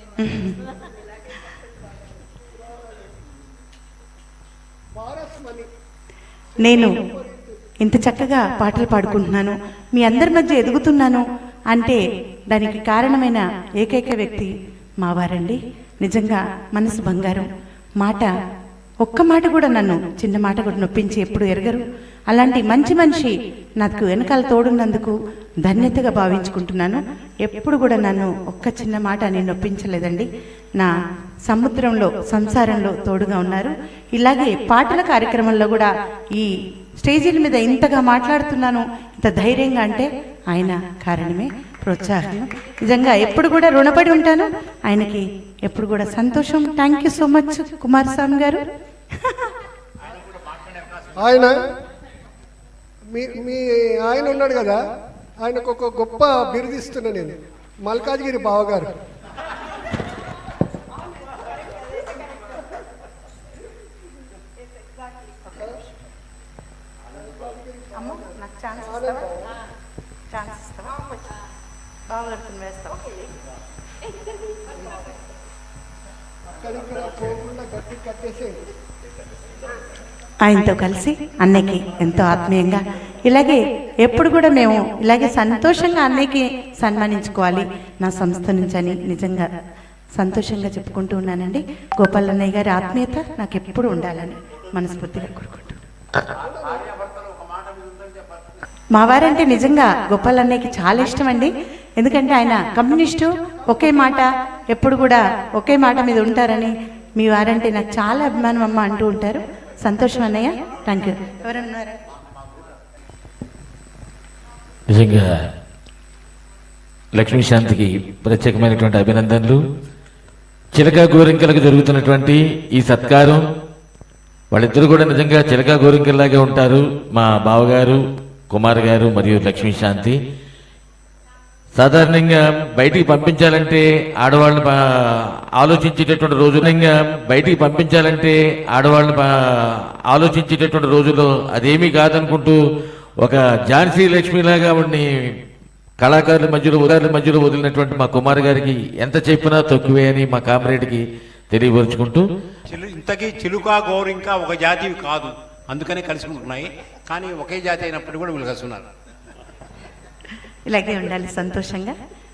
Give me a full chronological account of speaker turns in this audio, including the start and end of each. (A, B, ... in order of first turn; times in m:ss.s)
0:00.2-0:00.6 A
0:02.7-0:03.0 B
0:05.0-0:05.7 B
0:06.6-0:07.6 B
0:06.6-0:06.9 A
0:07.8-0:17.5 A
0:18.0-0:18.3 A
0:19.0-0:30.9 A
0:31.5-0:48.6 A
0:49.2-0:49.5 A
0:50.4-0:51.0 C
0:51.1-0:51.6 B
0:53.1-0:54.8 B
0:55.4-0:58.9 B
1:05.5-1:05.8 B
1:07.2-1:08.3 B
1:08.0-1:09.3 A
1:08.8-1:09.6 B
1:10.3-1:11.0 A
1:12.1-1:13.0 A
1:16.6-1:18.6 B
1:20.4-1:29.5 A
1:30.2-1:35.8 A
1:36.7-1:38.3 C
1:38.9-1:52.0 A
1:54.9-1:55.5 D
1:57.2-1:59.6 D
2:00.7-2:03.5 D
2:04.5-2:10.2 D
2:11.8-2:22.6 D
2:23.2-2:25.1 D
2:26.0-2:32.3 D
2:32.7-2:38.9 C
2:40.7-2:42.0 A